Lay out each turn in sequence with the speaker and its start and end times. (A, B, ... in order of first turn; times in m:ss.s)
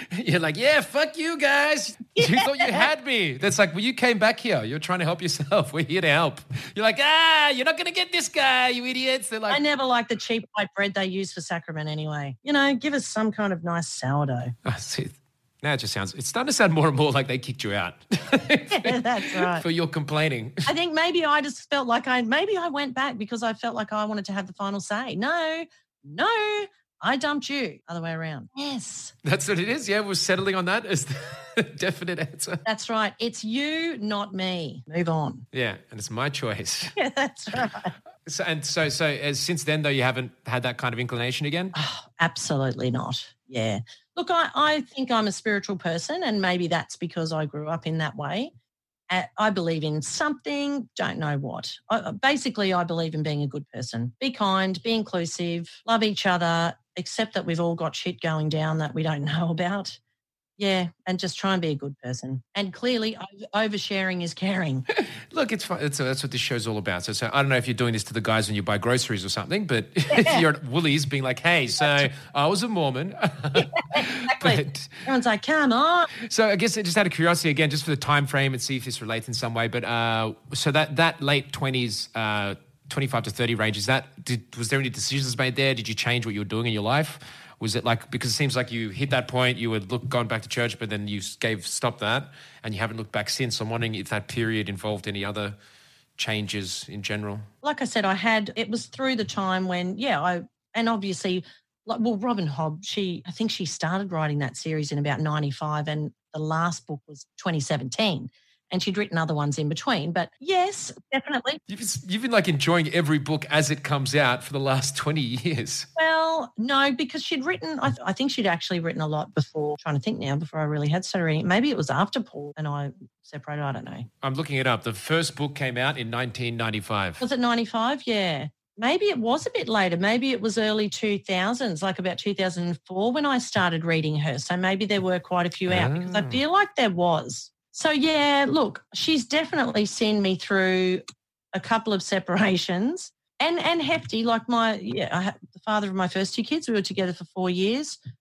0:00.1-0:09.6 A
0:02.2-0:02.9 B
0:09.5-0:14.5 B
0:14.7-0:20.7 A
0:18.7-0:19.7 B
0:20.7-0:29.1 B
0:29.2-0:32.6 A
0:32.6-0:35.4 B
0:35.5-0:36.9 A
0:37.0-0:37.9 B
0:38.2-0:41.7 A
0:41.7-0:48.5 B
0:49.1-1:00.0 B
1:00.6-1:04.9 B
1:05.3-1:15.0 A
1:10.1-1:10.4 B
1:11.8-1:12.1 B
1:13.6-1:16.1 B
1:16.2-1:35.6 A
1:36.2-1:37.5 A
1:37.6-1:51.6 B
1:51.7-1:55.9 A
1:56.0-2:04.1 B
2:04.2-2:07.2 A
2:07.2-2:28.0 B
2:15.7-2:16.4 A